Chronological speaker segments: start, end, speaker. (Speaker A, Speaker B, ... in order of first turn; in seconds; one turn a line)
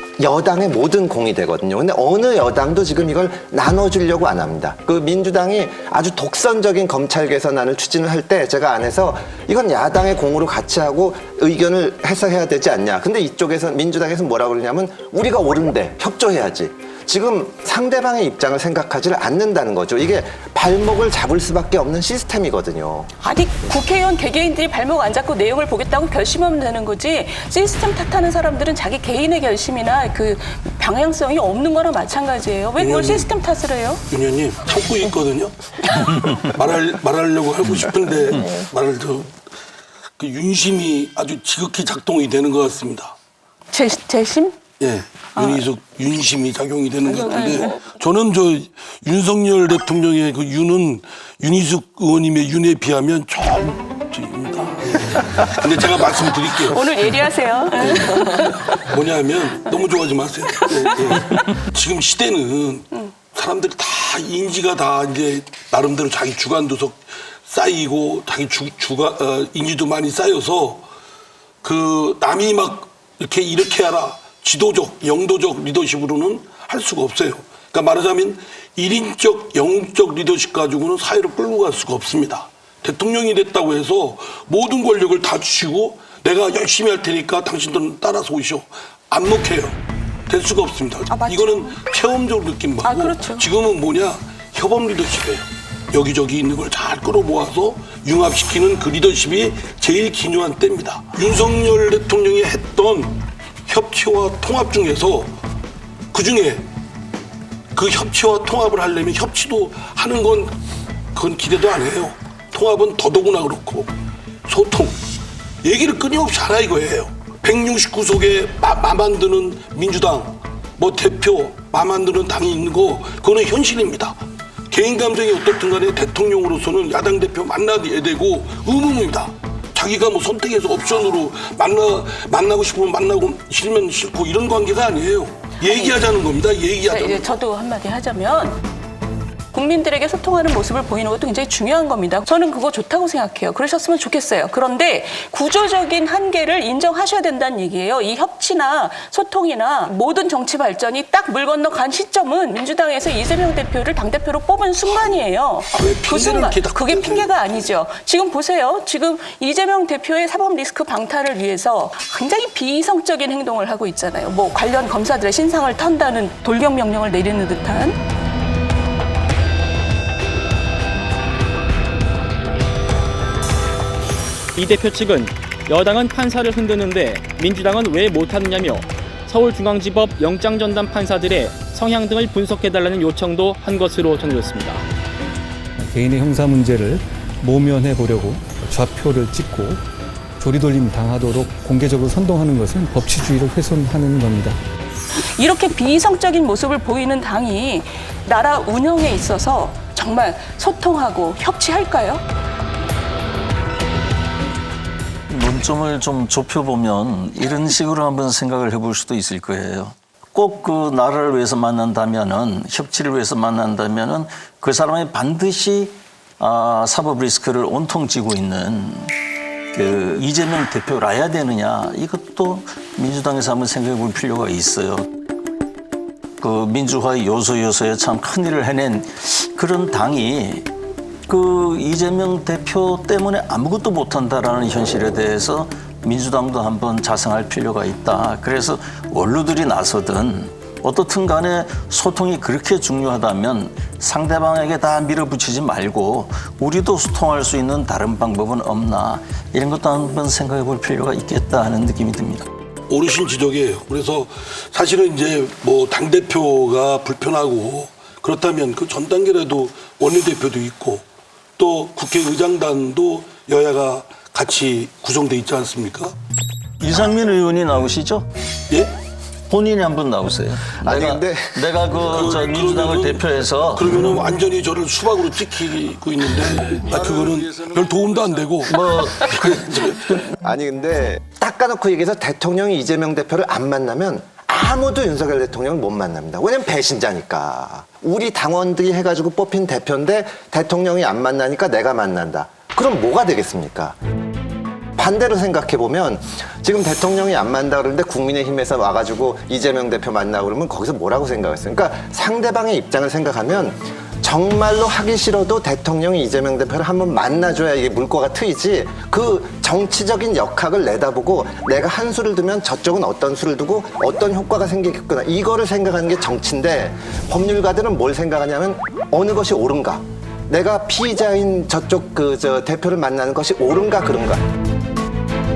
Speaker A: 0.2-23.1
Speaker B: 23.2-34.0
Speaker C: 32.8-33.3
Speaker C: 34.1-39.3
Speaker C: 40.2-43.1
Speaker B: 43.7-44.6
Speaker C: 44.8-56.8
Speaker B: 45.4-45.6
Speaker B: 47.1-47.7
Speaker B: 56.7-58.7
Speaker C: 57.9-70.8
Speaker B: 61.1-61.4
Speaker C: 71.6-89.8
Speaker C: 90.3-105.3
Speaker B: 91.1-91.8
Speaker B: 92.8-93.5
Speaker C: 106.1-106.6
Speaker C: 107.7-110.5
Speaker C: 111.1-113.9
Speaker C: 114.5-115.0
Speaker C: 115.6-124.2
Speaker C: 124.7-137.4
Speaker B: 135.7-136.0
Speaker B: 136.8-138.6
Speaker B: 139.5-168.0
Speaker C: 155.7-157.3
Speaker D: 174.5-184.8
Speaker E: 185.8-189.8
Speaker E: 190.4-194.6
Speaker B: 195.2-202.2
Speaker F: 205.3-219.1
Speaker F: 219.7-225.1
Speaker F: 226.4-230.7
Speaker F: 231.3-252.5
Speaker C: 252.9-261.0
Speaker C: 261.6-266.1
Speaker F: 266.8-268.3
Speaker C: 268.7-268.9
Speaker F: 269.5-273.8
Speaker A: 270.8-271.6
Speaker C: 272.0-280.1
Speaker F: 278.7-280.2
Speaker A: 280.4-294.0
Speaker A: 295.0-324.4